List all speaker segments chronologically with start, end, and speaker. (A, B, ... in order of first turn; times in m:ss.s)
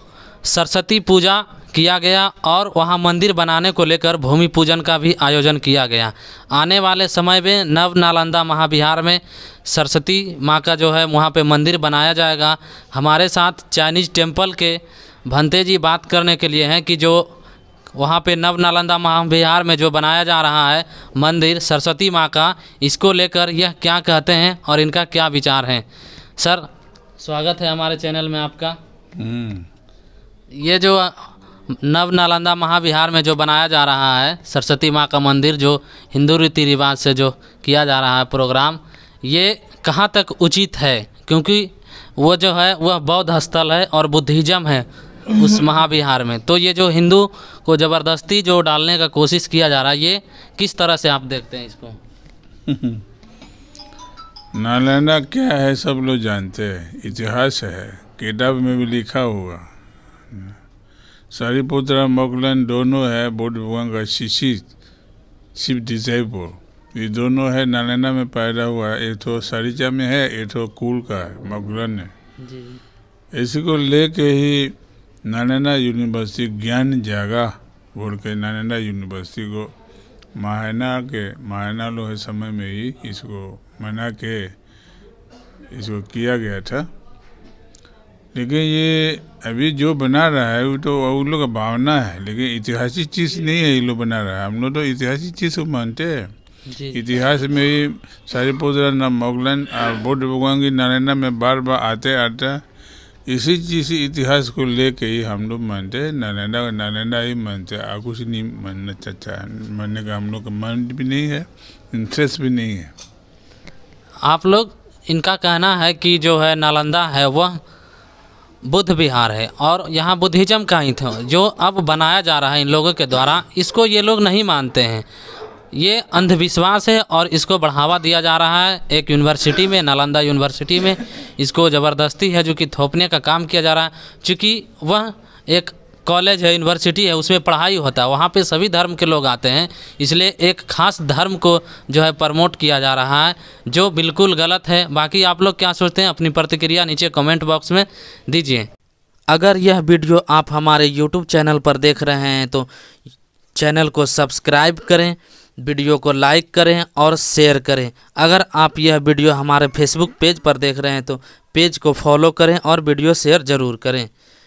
0:00.4-0:17.4 A
0:18.0-0:25.8 A
0:26.4-0:26.7 A
0:27.2-0:28.8 A
0:29.2-0:29.7 B
0:30.5-0:52.0 A
0:52.7-0:53.0 B
0:54.6-0:59.7 B
1:00.3-1:00.6 B
1:01.3-1:04.7 B
1:05.6-1:12.1 B
1:12.4-1:12.8 A
1:13.3-1:14.8 B
1:15.3-1:19.7 B
1:20.4-1:24.6 B
1:25.7-1:26.9 B
1:28.3-1:36.3 B
1:36.7-1:37.0 A
1:36.9-1:42.6 B
1:43.3-1:52.9 B
1:54.2-1:57.6 A
1:58.6-2:05.1 A
2:05.7-2:28.7 A
2:29.3-2:32.7 A
2:33.6-2:44.1 A